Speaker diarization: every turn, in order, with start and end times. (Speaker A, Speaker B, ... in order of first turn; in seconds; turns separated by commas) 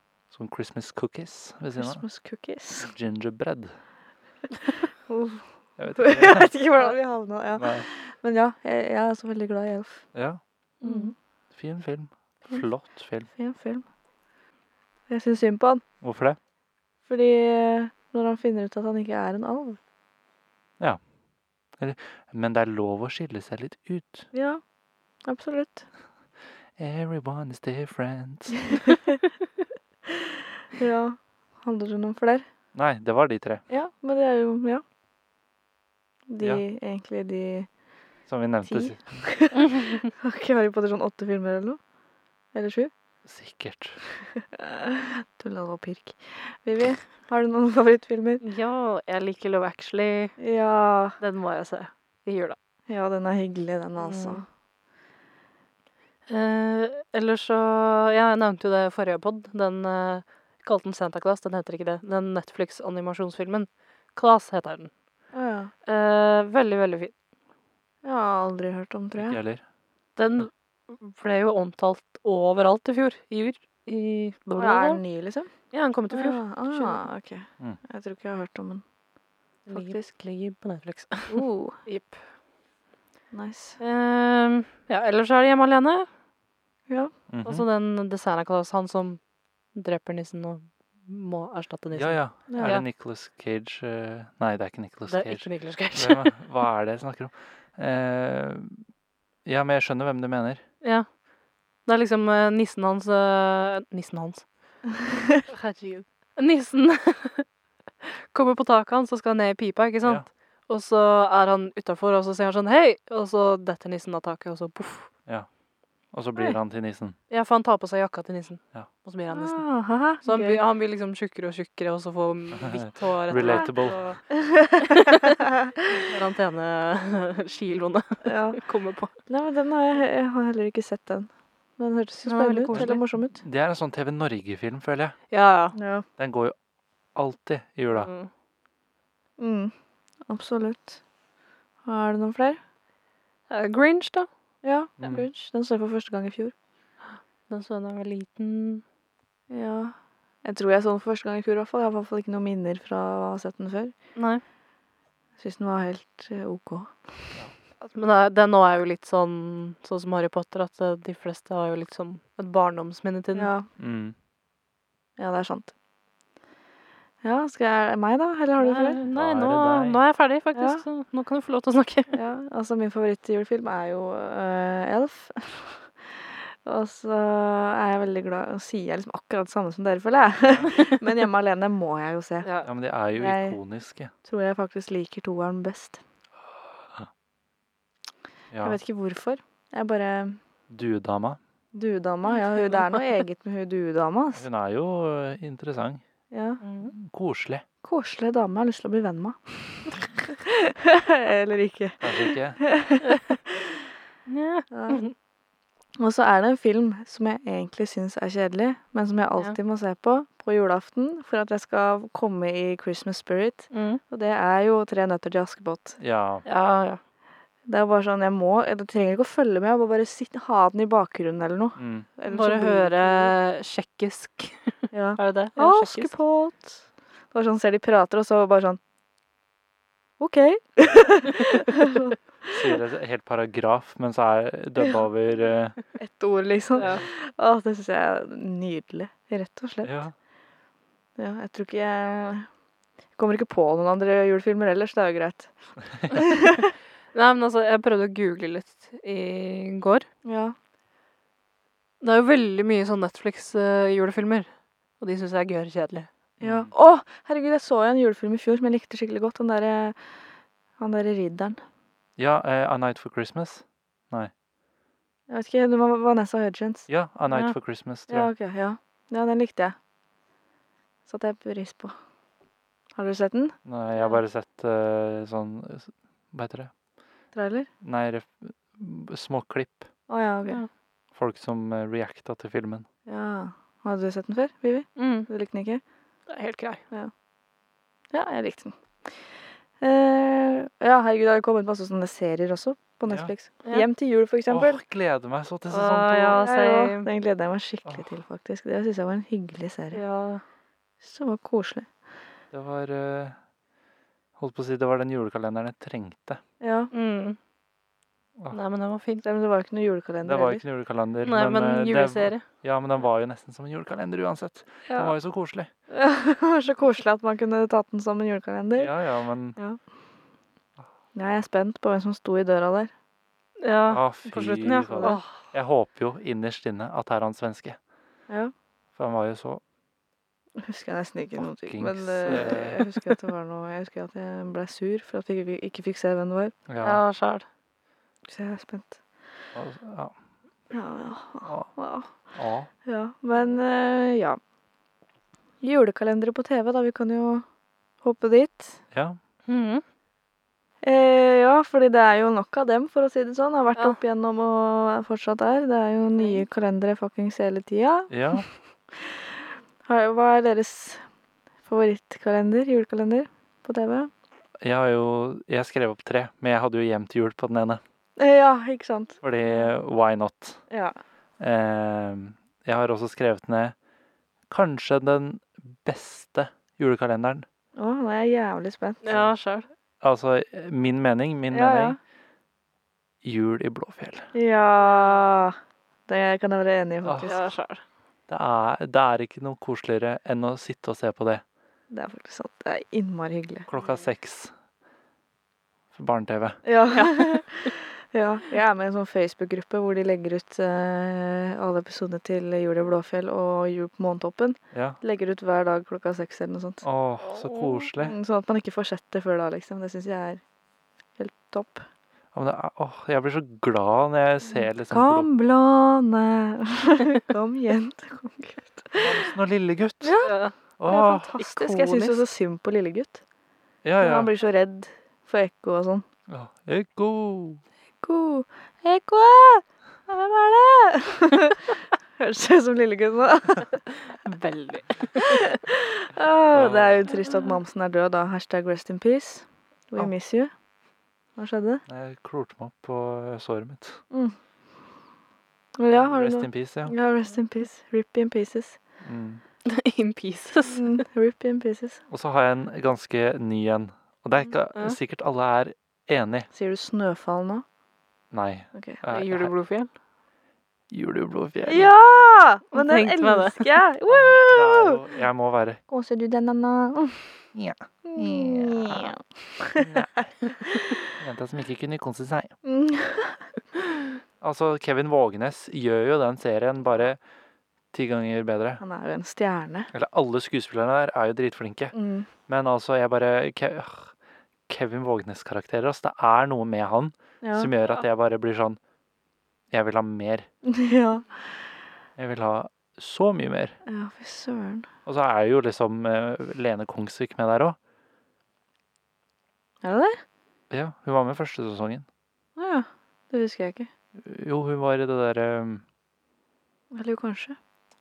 Speaker A: 0.3-2.0, Speaker B: 1.8-2.9, Speaker A: 2.8-3.8, Speaker B: 5.1-10.0, Speaker A: 5.8-6.5, Speaker A: 7.5-7.9, Speaker A: 10.1-10.4, Speaker C: 10.8-11.1, Speaker B: 10.8-11.1, Speaker A: 11.5-13.3, Speaker B: 13.3-13.8, Speaker B: 15.1-15.8, Speaker A: 16.0-16.4, Speaker B: 17.1-19.8, Speaker A: 21.8-24.3, Speaker B: 24.3-24.6, Speaker B: 25.2-25.8, Speaker A: 26.8-28.8, Speaker B: 28.7-29.2, Speaker B: 30.1-32.4, Speaker A: 32.7-33.6, Speaker B: 33.7-34.8, Speaker B: 36.3-37.7, Speaker A: 38.3-39.0, Speaker B: 38.6-41.8, Speaker B: 42.5-42.9, Speaker A: 43.2-44.0, Speaker B: 44.3-48.4, Speaker C: 48.4-50.4, Speaker B: 50.4-51.2, Speaker C: 51.2-52.5, Speaker B: 52.9-54.4, Speaker C: 54.0-54.4, Speaker C: 56.3-64.9, Speaker B: 65.3-65.7, Speaker C: 65.8-67.1, Speaker B: 68.0-69.4, Speaker A: 69.2-69.6, Speaker C: 70.2-75.0, Speaker B: 74.6-75.5, Speaker C: 75.7-77.0, Speaker B: 76.1-78.8, Speaker C: 79.7-82.2, Speaker B: 79.7-80.0, Speaker B: 81.3-81.8, Speaker B: 83.3-83.8, Speaker C: 83.8-86.1, Speaker A: 87.3-87.7, Speaker C: 87.4-89.2, Speaker C: 89.7-92.8, Speaker A: 91.9-98.8, Speaker B: 92.5-92.8, Speaker C: 95.1-96.3, Speaker A: 99.4-100.6, Speaker C: 100.8-101.1, Speaker C: 101.8-104.5, Speaker B: 105.0-105.4, Speaker C: 105.5-107.5, Speaker C: 108.0-115.1, Speaker A: 116.1-117.2, Speaker C: 117.3-119.7, Speaker B: 119.3-120.6, Speaker C: 120.2-124.2, Speaker A: 122.5-124.0, Speaker B: 123.3-123.7, Speaker B: 124.3-126.2, Speaker C: 124.8-125.4, Speaker C: 125.9-129.1, Speaker B: 128.2-128.6, Speaker B: 129.3-133.4, Speaker C: 132.2-133.0, Speaker A: 132.7-135.2, Speaker C: 135.3-135.8, Speaker B: 135.7-136.0, Speaker A: 136.2-136.5, Speaker A: 137.1-138.1, Speaker C: 138.0-138.3, Speaker B: 139.4-139.7, Speaker B: 140.3-141.0, Speaker B: 141.8-142.6, Speaker C: 143.5-144.3, Speaker B: 144.6-146.5, Speaker A: 145.0-145.3, Speaker C: 147.5-148.8, Speaker B: 149.5-153.9, Speaker C: 154.2-154.4, Speaker B: 155.4-157.1, Speaker C: 157.8-163.5, Speaker B: 163.3-163.7, Speaker A: 163.8-164.1, Speaker B: 165.2-165.7, Speaker B: 167.2-169.0, Speaker C: 168.6-172.2, Speaker A: 169.1-170.0, Speaker B: 170.5-170.8, Speaker B: 172.1-182.5, Speaker A: 180.4-180.7, Speaker C: 180.7-181.0, Speaker C: 182.4-182.7, Speaker A: 182.6-184.1, Speaker B: 183.1-183.6, Speaker B: 184.2-186.0, Speaker A: 188.5-188.8, Speaker B: 188.6-190.4, Speaker A: 190.7-191.4, Speaker B: 191.7-194.4, Speaker C: 192.3-193.1, Speaker A: 194.3-196.0, Speaker B: 196.3-196.6, Speaker C: 196.6-196.9, Speaker A: 196.9-197.6, Speaker B: 197.8-203.8, Speaker A: 202.0-202.6, Speaker C: 204.3-205.1, Speaker B: 204.7-205.0, Speaker B: 206.0-216.0, Speaker C: 213.7-214.0, Speaker A: 216.0-216.4, Speaker C: 216.4-217.0, Speaker B: 217.7-223.3, Speaker A: 221.8-222.1, Speaker C: 222.3-226.1, Speaker B: 224.9-226.8, Speaker B: 227.3-228.8, Speaker B: 230.2-232.8, Speaker A: 232.5-235.8, Speaker B: 236.0-240.0, Speaker A: 236.8-237.1, Speaker A: 239.8-240.1, Speaker B: 241.2-242.5, Speaker B: 243.2-245.5, Speaker B: 246.1-246.7, Speaker C: 247.1-250.1, Speaker B: 250.2-250.5, Speaker C: 252.0-254.5, Speaker C: 255.0-256.1, Speaker A: 256.4-256.7, Speaker B: 256.4-260.0, Speaker B: 260.8-261.6, Speaker A: 262.2-264.3, Speaker B: 265.3-266.9, Speaker A: 266.9-268.3, Speaker B: 268.1-269.8, Speaker B: 271.1-271.9, Speaker B: 272.9-273.6, Speaker A: 273.6-276.7, Speaker B: 277.3-277.7, Speaker A: 277.8-279.9, Speaker B: 280.1-280.6, Speaker A: 281.1-282.9, Speaker B: 283.1-285.8, Speaker C: 285.0-285.3, Speaker C: 286.3-286.8, Speaker B: 288.1-289.1, Speaker B: 289.8-294.8, Speaker A: 293.1-293.3, Speaker A: 294.5-296.4, Speaker C: 295.7-297.1, Speaker B: 296.4-300.0, Speaker A: 297.8-298.1, Speaker C: 299.9-300.4, Speaker B: 301.0-301.9, Speaker A: 302.5-303.4, Speaker A: 304.4-306.4, Speaker B: 306.6-306.9, Speaker C: 306.9-307.4, Speaker C: 308.5-309.2, Speaker B: 309.2-310.6, Speaker A: 310.2-315.7, Speaker C: 311.2-312.4, Speaker B: 315.9-318.9, Speaker A: 318.8-319.6, Speaker B: 321.1-322.9, Speaker C: 323.6-325.3, Speaker A: 323.9-327.8, Speaker A: 329.0-329.6, Speaker B: 330.6-336.5, Speaker A: 331.4-332.9, Speaker A: 336.7-337.0, Speaker C: 336.8-337.4, Speaker B: 338.3-339.0, Speaker A: 339.5-340.1, Speaker B: 340.7-342.1, Speaker A: 342.3-342.7, Speaker B: 342.8-344.4, Speaker B: 345.6-347.4, Speaker B: 348.0-348.8, Speaker A: 348.9-349.2, Speaker C: 349.5-349.8, Speaker B: 350.8-358.1, Speaker A: 358.1-358.5, Speaker B: 358.9-361.0, Speaker B: 361.6-364.1, Speaker A: 364.6-367.8, Speaker B: 368.2-369.2, Speaker A: 369.2-370.6, Speaker B: 370.7-370.9, Speaker A: 371.4-373.7, Speaker A: 374.5-377.4, Speaker B: 377.8-379.2, Speaker C: 379.0-379.7, Speaker A: 380.0-382.0, Speaker B: 381.5-382.0, Speaker A: 383.2-384.3, Speaker B: 384.3-385.6, Speaker C: 384.8-385.2, Speaker B: 386.1-387.5, Speaker A: 387.0-387.3, Speaker C: 387.2-387.8, Speaker A: 388.3-391.4, Speaker B: 391.9-393.7, Speaker A: 393.7-394.5, Speaker A: 395.9-396.6, Speaker B: 396.6-406.8, Speaker C: 396.9-397.7, Speaker A: 404.7-405.0, Speaker A: 406.8-408.1, Speaker C: 407.2-407.9, Speaker B: 408.0-410.4, Speaker B: 411.2-411.8, Speaker A: 412.3-415.3, Speaker B: 414.9-419.3, Speaker A: 418.9-420.2, Speaker B: 420.0-420.3, Speaker C: 420.2-420.5, Speaker A: 420.8-421.3, Speaker B: 420.9-423.2, Speaker C: 421.3-422.2, Speaker A: 423.8-424.3, Speaker B: 424.0-426.0, Speaker A: 426.3-427.6, Speaker B: 428.0-433.7, Speaker C: 433.9-435.5, Speaker B: 435.1-440.5, Speaker A: 436.5-437.1, Speaker B: 441.4-441.8, Speaker A: 441.9-444.0, Speaker B: 444.1-444.4, Speaker B: 445.8-448.8, Speaker A: 445.9-446.9, Speaker A: 449.0-449.4, Speaker C: 449.6-450.9, Speaker B: 450.7-452.0, Speaker A: 452.1-456.5, Speaker B: 456.5-457.6, Speaker A: 458.3-459.5, Speaker B: 458.7-459.0, Speaker C: 459.1-459.9, Speaker A: 460.9-461.9, Speaker B: 461.6-465.0, Speaker C: 462.7-463.7, Speaker A: 464.1-465.8, Speaker B: 465.9-467.4, Speaker A: 467.5-469.1, Speaker B: 468.0-469.9, Speaker A: 469.7-470.5, Speaker B: 470.6-471.0, Speaker A: 471.1-472.5, Speaker B: 472.6-473.8, Speaker A: 474.4-477.2, Speaker A: 477.9-478.8, Speaker B: 478.8-479.9, Speaker A: 479.9-481.9, Speaker B: 481.9-482.3, Speaker A: 482.5-484.1, Speaker A: 484.7-488.8, Speaker B: 487.4-487.7, Speaker A: 489.7-490.5, Speaker B: 490.6-491.3, Speaker A: 492.2-493.8, Speaker B: 493.9-494.9, Speaker A: 495.1-497.8, Speaker B: 499.8-500.2, Speaker A: 500.7-502.1, Speaker B: 502.6-503.9, Speaker A: 504.2-505.8, Speaker B: 506.9-507.6